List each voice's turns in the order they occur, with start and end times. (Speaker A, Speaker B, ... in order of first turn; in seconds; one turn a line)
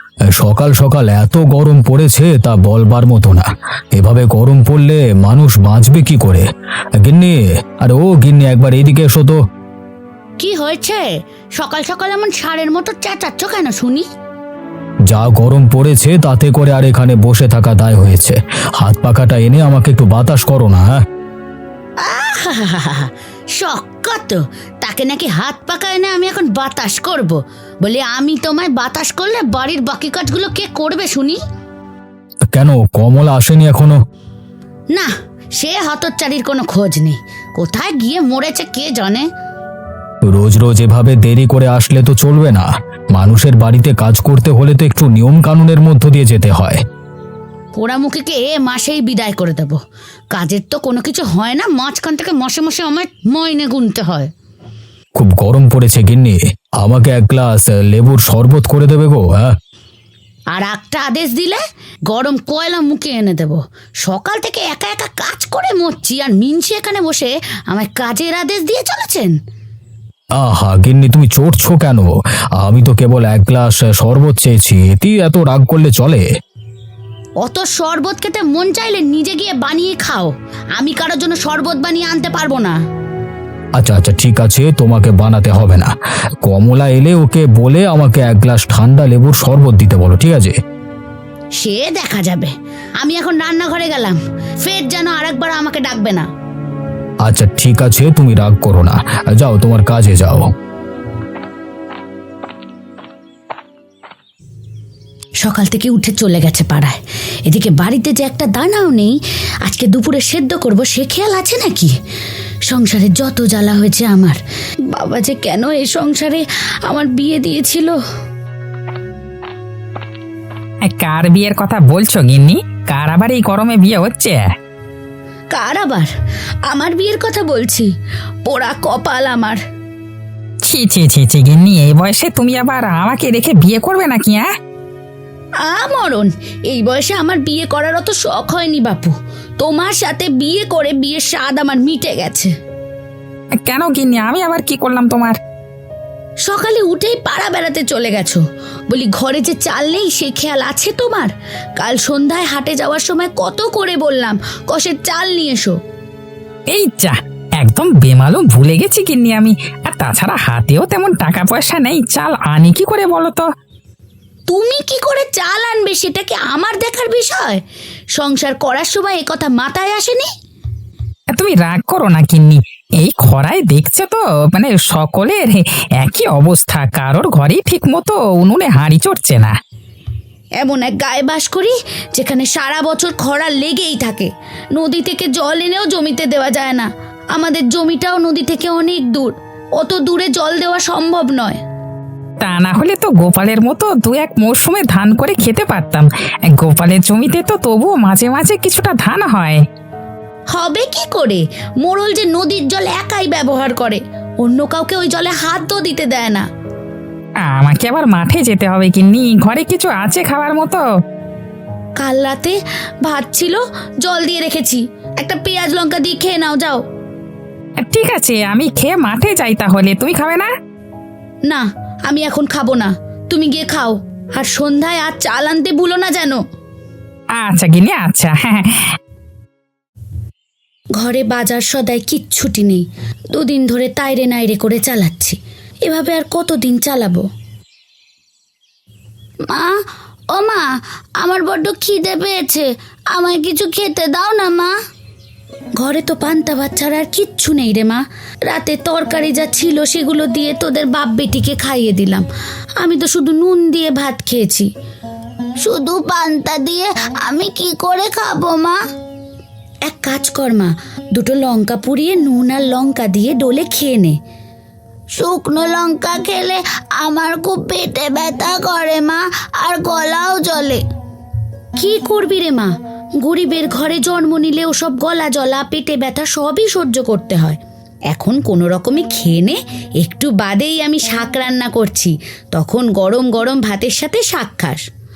Speaker A: 0.3-6.4
Speaker A: 7.0-9.4
Speaker B: 10.4-14.1
Speaker A: 15.1-21.0
Speaker B: 22.0-31.4
Speaker A: 32.5-34.0
Speaker B: 34.9-39.3
Speaker A: 40.3-46.8
Speaker B: 47.7-49.8
Speaker B: 50.3-54.3
Speaker A: 55.1-59.5
Speaker B: 60.5-69.3
Speaker A: 70.4-76.2
Speaker B: 77.4-82.8
Speaker A: 83.8-85.9
Speaker A: 86.4-90.6
Speaker B: 91.6-96.3
Speaker A: 97.2-100.5
Speaker B: 105.4-111.9
Speaker B: 112.7-114.4
Speaker B: 114.9-118.0
Speaker C: 120.8-124.5
Speaker B: 125.5-126.1
Speaker B: 126.7-127.9
Speaker B: 128.4-129.6
Speaker C: 130.6-134.5
Speaker B: 135.6-142.5
Speaker C: 143.6-145.4
Speaker B: 146.4-155.8
Speaker C: 156.7-163.4
Speaker B: 164.5-167.6
Speaker B: 168.2-170.3
Speaker C: 171.3-179.5
Speaker B: 180.6-191.6
Speaker C: 192.4-199.6
Speaker B: 200.5-206.5
Speaker C: 207.4-210.8
Speaker B: 212.0-216.8
Speaker C: 217.8-220.5
Speaker B: 221.5-226.4
Speaker C: 227.3-229.0
Speaker B: 230.9-237.2
Speaker B: 239.5-239.8
Speaker B: 240.3-240.7
Speaker B: 241.2-244.7
Speaker B: 245.8-252.2
Speaker B: 252.8-254.7
Speaker B: 255.6-258.8
Speaker B: 259.8-264.2
Speaker B: 265.1-270.8
Speaker B: 271.8-277.6
Speaker B: 278.1-284.8